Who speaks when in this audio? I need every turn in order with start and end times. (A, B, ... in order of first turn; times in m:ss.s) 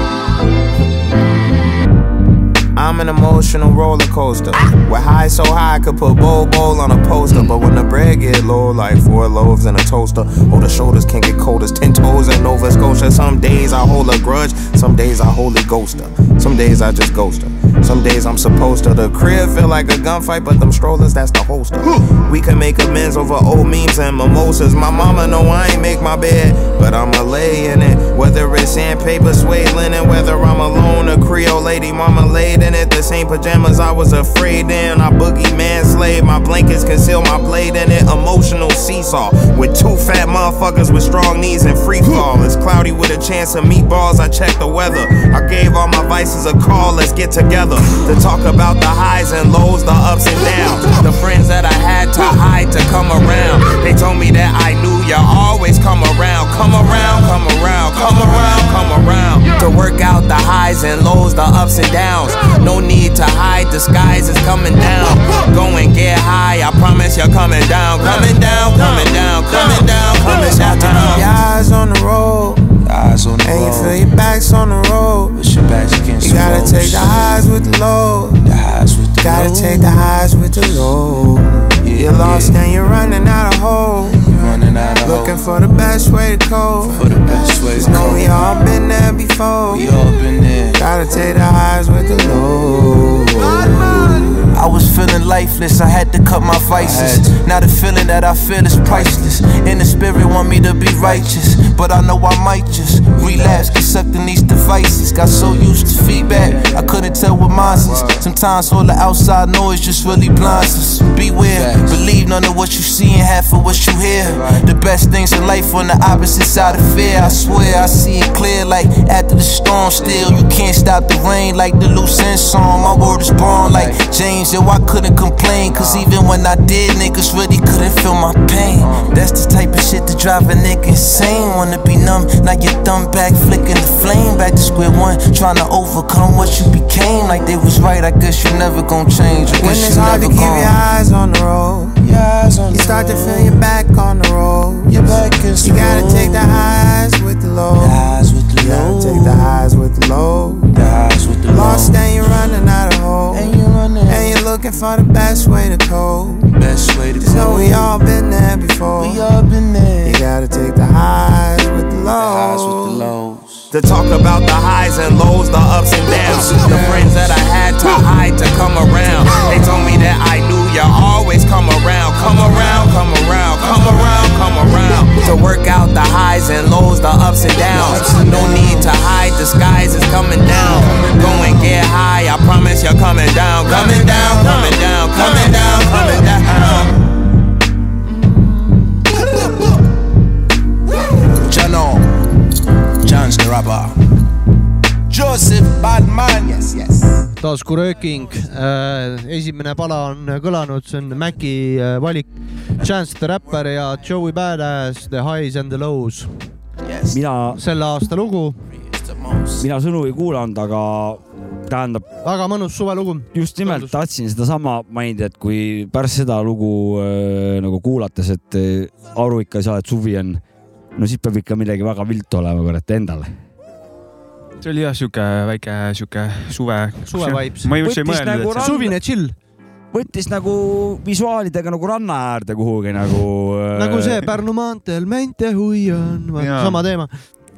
0:02.8-1:12.7 A
1:08.1-1:09.0 B
1:09.6-1:11.3 B
1:12.8-1:14.0 B
1:13.4-1:15.4 A
1:15.3-1:17.3 B
1:16.2-1:18.4 A
1:18.4-1:20.1 B
1:19.2-1:30.0 A
1:21.8-1:22.6 B
1:24.3-1:25.5 B
1:27.0-1:28.5 B
1:29.7-1:30.8 B
1:30.8-1:34.5 A
1:33.4-2:20.8 B
2:19.5-2:22.0 A
2:22.0-2:23.6 B
2:22.7-2:30.8 A
2:24.9-2:26.5 B
2:27.8-2:29.6 B
2:30.7-2:32.5 B
2:31.4-2:36.5 A
2:33.3-2:34.4 B
2:36.5-2:38.0 B
2:37.2-2:39.3 A
2:39.0-2:40.3 B
2:40.0-2:43.1 A
2:42.2-2:43.7 B
2:43.7-3:07.0 A
2:46.3-2:47.3 B
2:57.8-2:58.8 B
3:03.8-3:04.5 B
3:11.4-3:12.2 B
3:13.0-3:14.0 B
3:15.1-3:16.9 B
3:17.4-3:26.4 C
3:27.1-3:27.6 D
3:27.5-3:28.6 C
3:29.0-3:29.6 B
3:29.6-3:32.1 D
3:32.2-3:34.0 C
3:33.3-3:40.4 D
3:41.0-3:43.3 D
3:44.6-3:48.7 E
3:47.1-3:47.7 C
3:47.8-3:49.0 D
3:48.6-3:49.4 C
3:49.9-3:54.2 D
3:53.8-3:57.1 C
3:56.4-3:56.8 E